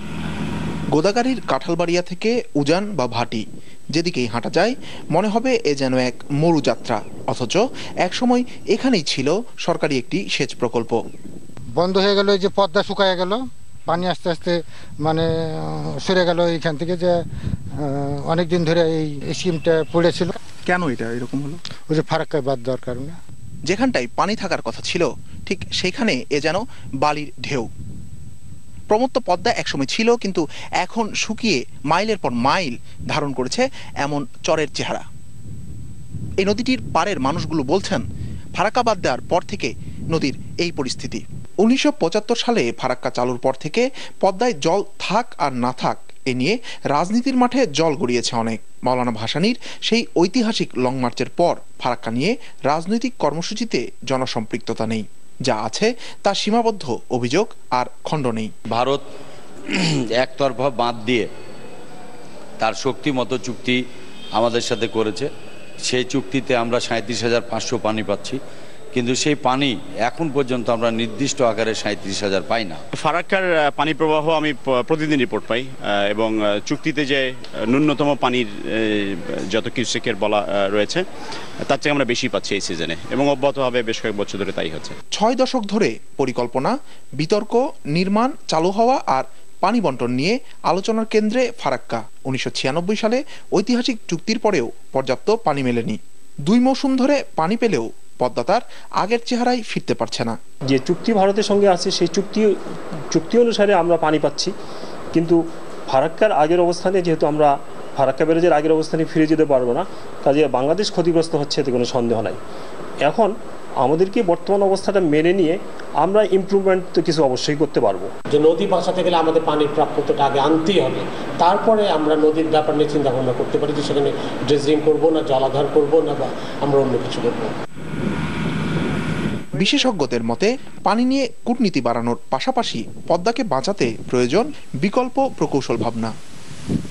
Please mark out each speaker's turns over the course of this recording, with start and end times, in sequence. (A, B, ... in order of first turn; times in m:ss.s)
0:00.9-0:03.4 A
0:03.9-0:11.0 A
0:11.8-0:17.2 B
0:17.8-0:20.4 B
0:20.7-0:21.6 A
0:21.9-0:23.2 B
0:23.7-0:27.7 A
0:28.9-0:35.0 A
0:36.4-0:38.0 A
0:38.6-0:58.5 A
0:58.7-0:59.0 C
0:59.7-1:01.3 C
1:02.6-1:03.8 C
1:04.3-1:05.3 C
1:05.8-1:08.4 C
1:08.9-1:12.8 C
1:13.0-1:21.0 D
1:21.6-1:25.0 D
1:25.2-1:40.4 A
1:40.7-1:42.5 E
1:43.1-1:44.5 E
1:45.1-1:52.4 E
1:53.0-1:58.1 E
1:58.3-2:07.5 F
2:09.5-2:16.1 A